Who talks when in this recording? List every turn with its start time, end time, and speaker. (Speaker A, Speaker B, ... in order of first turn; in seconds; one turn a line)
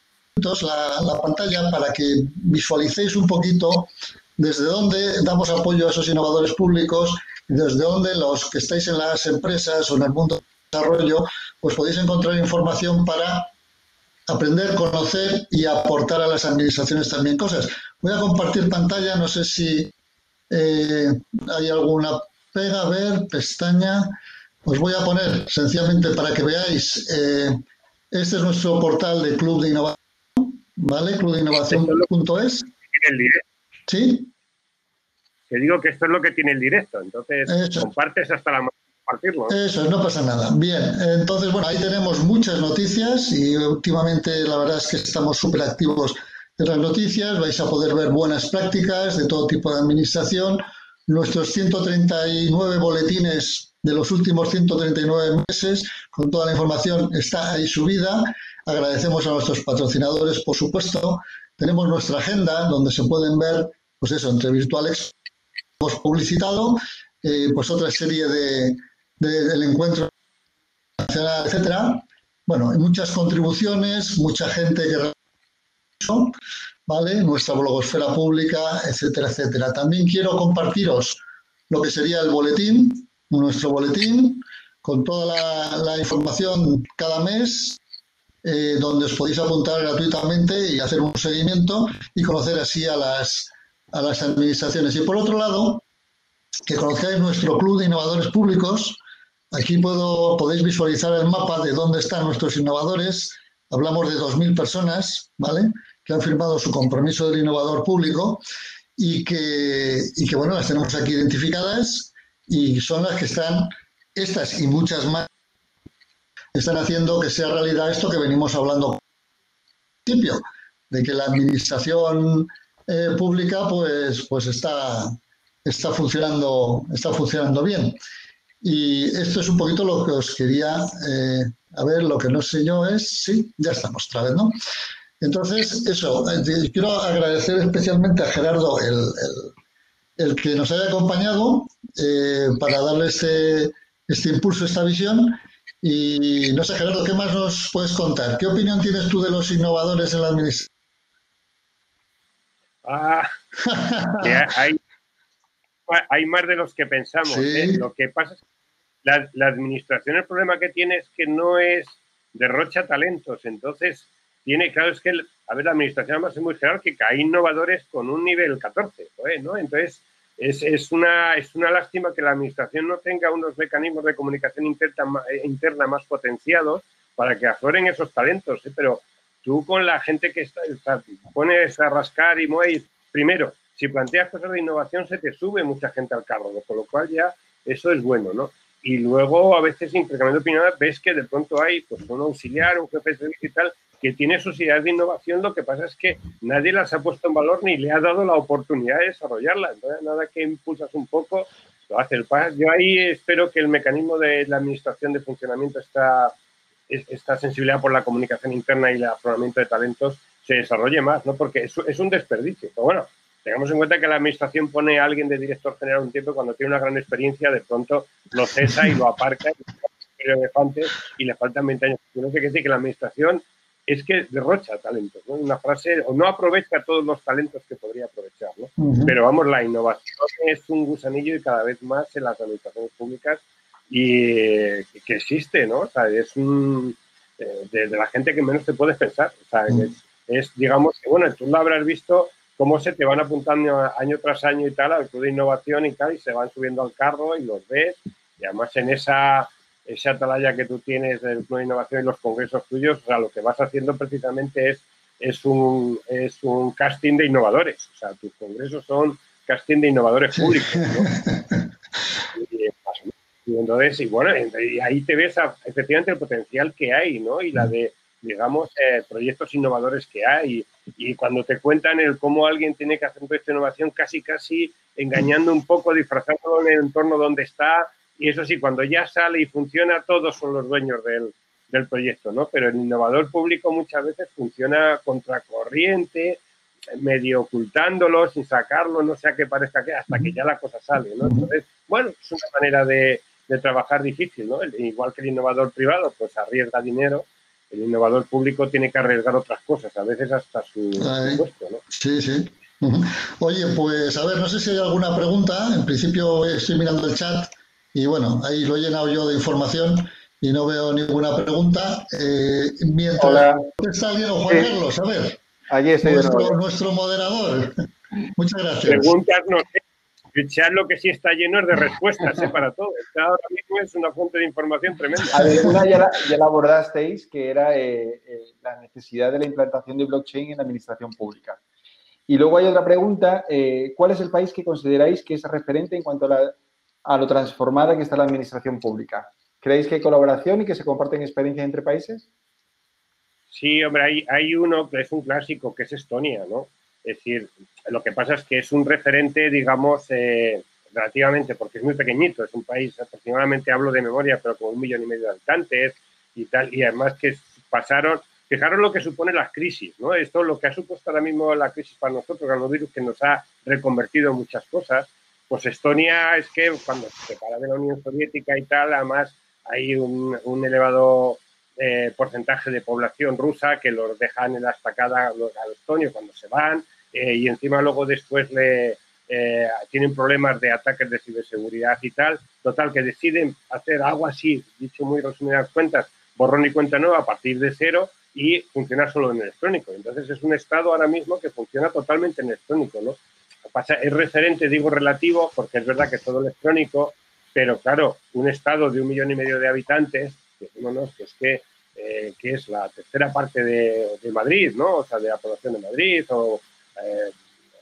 Speaker A: 0.4-13.5
Speaker A: 14.3-19.9
Speaker A: 20.5-24.1
Speaker A: 24.7-27.6
Speaker A: 28.1-32.7
Speaker B: 31.7-32.1
Speaker B: 32.9-33.4
Speaker A: 33.9-34.3
Speaker B: 35.5-39.6
Speaker A: 37.5-37.9
Speaker A: 39.5-65.1
Speaker A: 65.8-70.1
Speaker A: 71.0-75.2
Speaker A: 76.0-76.3
Speaker A: 76.9-87.8
Speaker A: 88.4-95.8
Speaker A: 96.7-99.0
Speaker A: 99.5-108.4
Speaker A: 109.0-115.3
Speaker A: 116.5-119.0
Speaker A: 120.1-128.0
Speaker A: 128.6-134.6
Speaker A: 135.2-139.5
Speaker A: 140.2-150.7
Speaker B: 152.8-153.3
Speaker A: 153.6-154.5
Speaker B: 154.2-154.8
Speaker B: 155.9-158.4
Speaker A: 157.3-157.8
Speaker B: 159.0-206.3
Speaker B: 206.9-261.1
Speaker A: 228.8-229.2
Speaker A: 260.4-261.7
Speaker B: 262.3-286.4
Speaker B: 286.9-301.8
Speaker A: 291.2-291.5
Speaker A: 301.0-315.4
Speaker C: 313.2-313.7
Speaker C: 314.5-314.7
Speaker C: 315.7-316.6
Speaker A: 316.0-319.1
Speaker B: 318.9-319.8
Speaker B: 320.3-325.7
Speaker C: 325.3-331.6
Speaker C: 332.3-336.5
Speaker C: 337.1-342.2
Speaker B: 343.5-407.3